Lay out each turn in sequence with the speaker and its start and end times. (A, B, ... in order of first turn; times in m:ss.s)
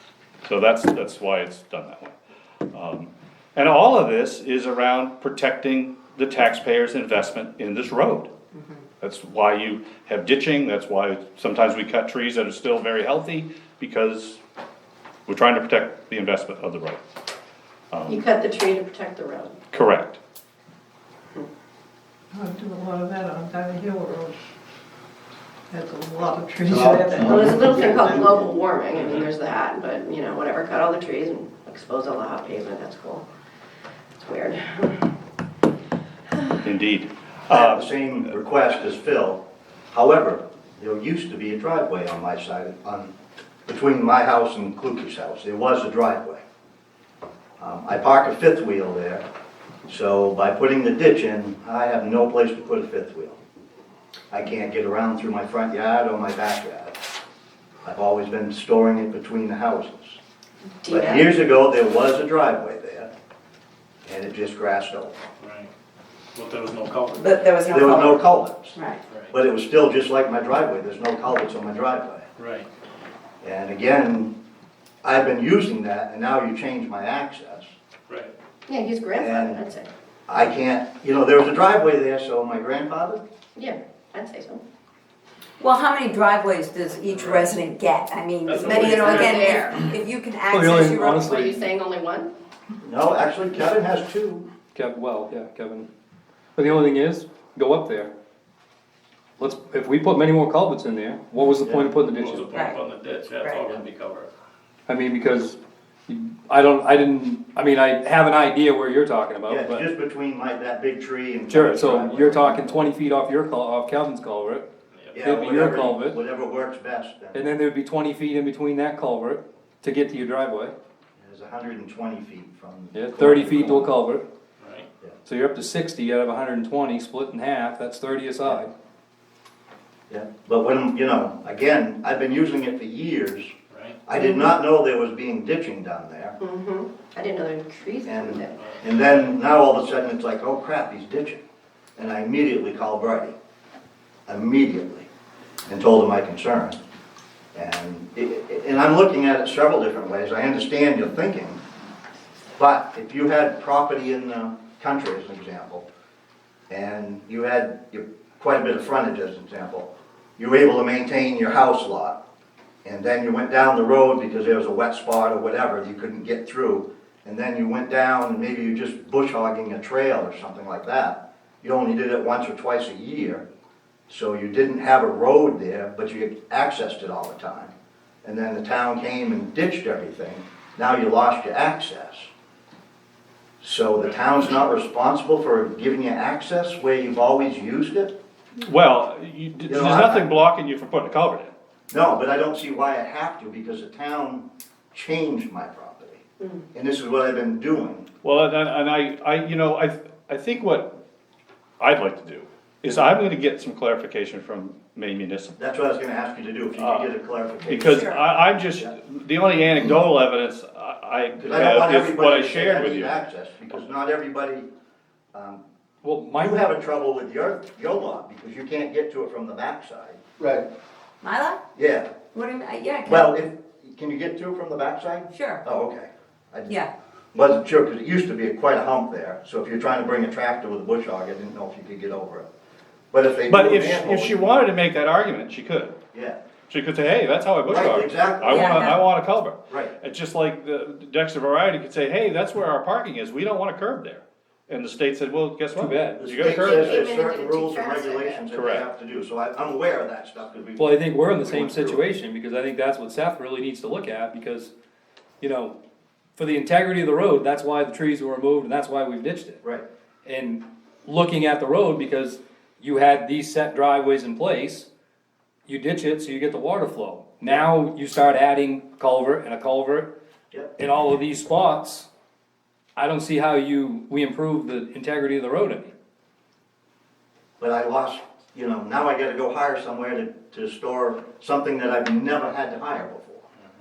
0:00.4-0:02.2 A
0:02.7-0:08.3 A
0:09.0-0:14.4 A
0:15.2-0:17.0 A
0:17.9-0:18.2 A
0:18.1-0:19.6 B
0:19.7-0:20.2 A
0:22.3-0:24.4 C
0:25.7-0:27.6 C
0:26.6-0:28.5 D
0:27.2-0:33.2 B
0:28.9-0:29.3 E
0:34.2-0:35.1 B
0:36.6-0:38.2 A
0:37.5-0:43.1 F
0:43.6-0:46.4 F
0:47.6-0:49.2 F
0:49.9-0:53.4 F
0:54.3-0:57.0 F
0:57.8-1:00.2 F
1:00.8-1:01.3 G
1:00.9-1:03.1 F
1:04.0-1:05.2 F
1:05.4-1:05.7 E
1:06.3-1:07.4 E
1:07.2-1:08.2 G
1:07.6-1:08.8 F
1:09.1-1:09.3 E
1:09.3-1:12.2 F
1:12.4-1:12.7 E
1:13.4-1:14.3 F
1:15.0-1:17.7 F
1:18.7-1:19.9 B
1:19.2-1:19.6 F
1:20.3-1:23.2 F
1:23.6-1:24.6 B
1:25.6-1:31.3 G
1:27.0-1:27.5 E
1:28.4-1:29.6 E
1:28.6-1:29.8 B
1:30.5-1:31.6 H
1:30.7-1:32.3 B
1:32.8-1:34.5 F
1:34.7-1:35.9 H
1:36.6-1:38.1 H
1:39.4-1:42.7 H
1:41.6-1:41.9 F
1:42.0-1:44.3 E
1:44.9-1:49.8 H
1:49.5-1:52.8 F
1:51.5-1:54.6 H
1:55.0-1:55.2 E
1:55.1-1:57.5 F
1:55.2-1:56.2 H
1:57.3-2:00.7 H
2:01.2-2:03.9 F
2:02.9-2:04.2 H
2:04.6-2:04.9 E
2:05.2-2:08.7 H
2:10.1-2:13.5 F
2:13.7-2:14.0 E
2:14.0-2:16.4 F
2:14.1-2:14.5 B
2:16.4-2:18.5 B
2:18.0-2:21.4 F
2:18.5-2:19.4 E
2:22.0-2:23.3 F
2:24.3-2:25.1 F
2:25.7-2:26.8 F
2:27.5-2:31.6 F
2:32.6-2:35.8 F
2:36.7-2:42.2 F
2:42.8-2:53.4 F
2:54.1-2:57.7 F
2:58.2-3:02.3 F
3:03.6-3:08.1 F
3:08.6-3:11.5 A
3:09.7-3:10.3 F
3:11.9-3:16.2 F
3:16.7-3:18.1 F
3:18.2-3:20.9 A
3:21.8-3:25.6 A
3:25.6-3:28.9 F
3:26.8-3:27.1 A
3:27.7-3:33.2 A
3:31.4-3:34.7 F
3:35.3-3:35.6 F
3:36.0-3:36.6 H
3:36.4-3:40.2 F
3:40.4-3:40.6 D
3:41.2-3:41.6 G
3:41.7-3:42.2 F
3:42.3-3:43.3 G
3:43.1-3:46.8 F
3:45.3-3:45.6 G
3:47.3-3:52.4 F
3:53.1-3:54.6 F
3:53.5-3:56.0 A
3:56.1-3:56.4 F
3:56.7-4:07.0 A
3:57.6-3:58.9 F
3:58.5-3:59.0 G
3:59.7-3:59.9 F
4:05.7-4:06.2 H
4:06.2-4:12.1 F
4:06.4-4:08.4 B
4:08.5-4:08.9 A
4:10.8-4:14.7 H
4:15.4-4:15.8 H
4:16.4-4:19.6 H
4:20.2-4:24.9 H
4:25.7-4:30.1 H
4:30.8-4:32.1 H
4:33.0-4:35.9 H
4:37.6-4:43.4 F